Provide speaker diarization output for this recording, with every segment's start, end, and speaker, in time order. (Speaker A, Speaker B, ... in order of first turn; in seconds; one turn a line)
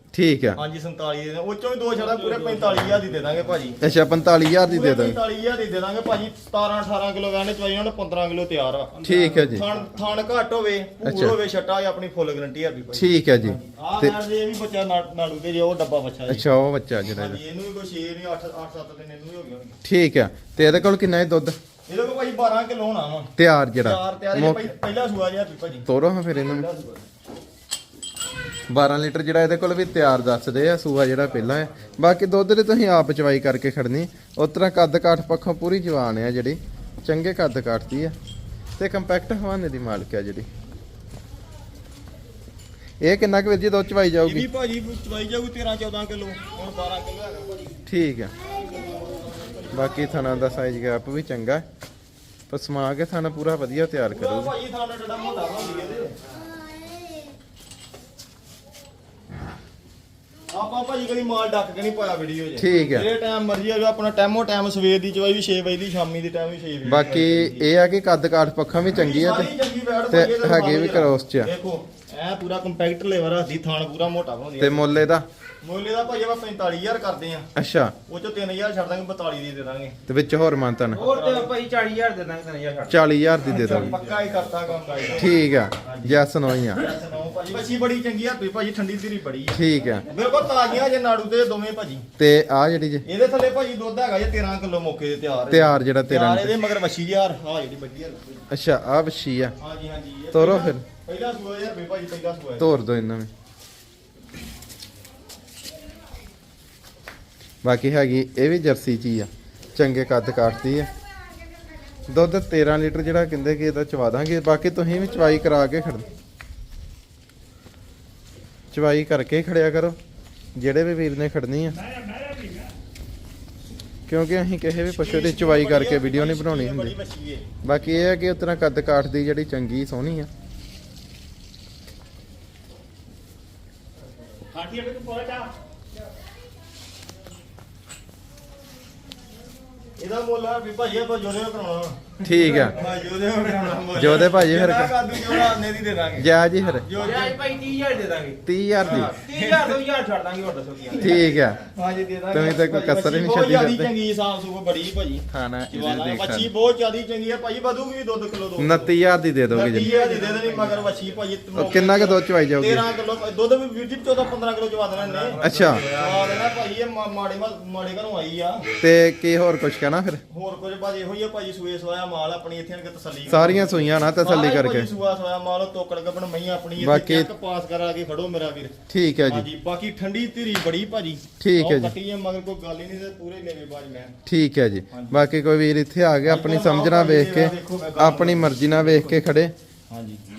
Speaker A: 0.1-0.6
Speaker B: 0.6-3.8
Speaker C: 1.9-3.4
Speaker A: 3.8-5.2
Speaker B: 4.6-16.4
Speaker C: 8.9-9.9
Speaker A: 9.0-9.7
Speaker A: 11.0-11.4
Speaker A: 12.9-14.1
Speaker A: 16.3-17.4
Speaker B: 17.1-19.8
Speaker A: 19.8-21.5
Speaker B: 21.9-25.9
Speaker A: 23.4-24.7
Speaker A: 25.9-26.6
Speaker B: 26.4-27.0
Speaker A: 28.7-38.1
Speaker A: 38.8-40.5
Speaker A: 43.0-44.5
Speaker B: 44.2-47.8
Speaker A: 47.9-48.3
Speaker B: 48.4-50.6
Speaker A: 49.7-51.6
Speaker A: 52.5-54.5
Speaker B: 54.1-56.1
Speaker B: 60.5-67.7
Speaker A: 62.6-63.1
Speaker A: 66.8-69.5
Speaker B: 68.9-75.0
Speaker A: 70.1-71.5
Speaker A: 74.6-75.2
Speaker B: 75.6-77.5
Speaker A: 77.5-77.9
Speaker B: 78.0-80.0
Speaker A: 80.1-81.0
Speaker C: 80.9-85.2
Speaker B: 81.0-81.5
Speaker A: 82.9-83.9
Speaker B: 83.5-92.0
Speaker A: 85.2-86.8
Speaker A: 89.5-90.1
Speaker A: 92.2-93.0
Speaker B: 93.0-98.4
Speaker A: 95.5-96.5
Speaker A: 98.5-99.5
Speaker B: 99.6-102.7
Speaker A: 100.3-100.8
Speaker A: 102.6-103.3
Speaker A: 107.6-110.9
Speaker A: 112.1-116.1
Speaker A: 118.7-120.0
Speaker A: 120.5-121.8
Speaker A: 124.1-126.9
Speaker B: 124.8-127.5
Speaker A: 127.6-130.3
Speaker C: 134.5-135.4
Speaker B: 140.0-147.4
Speaker A: 142.2-142.8
Speaker A: 143.9-144.9
Speaker A: 146.2-146.9
Speaker C: 146.9-151.2
Speaker A: 148.4-149.2
Speaker B: 148.8-149.6
Speaker B: 150.9-158.9
Speaker A: 151.0-151.6
Speaker A: 152.3-153.9
Speaker A: 155.3-156.5
Speaker A: 158.6-159.9
Speaker B: 159.5-168.7
Speaker C: 159.6-161.2
Speaker A: 161.5-162.8
Speaker C: 164.9-166.5
Speaker A: 165.4-165.8
Speaker A: 168.8-170.2
Speaker B: 170.3-178.7
Speaker A: 173.3-174.9
Speaker A: 176.8-177.3
Speaker A: 178.9-179.5
Speaker B: 179.3-184.1
Speaker A: 181.4-181.9
Speaker A: 184.2-189.5
Speaker B: 184.9-185.2
Speaker B: 186.2-189.1
Speaker B: 189.9-190.2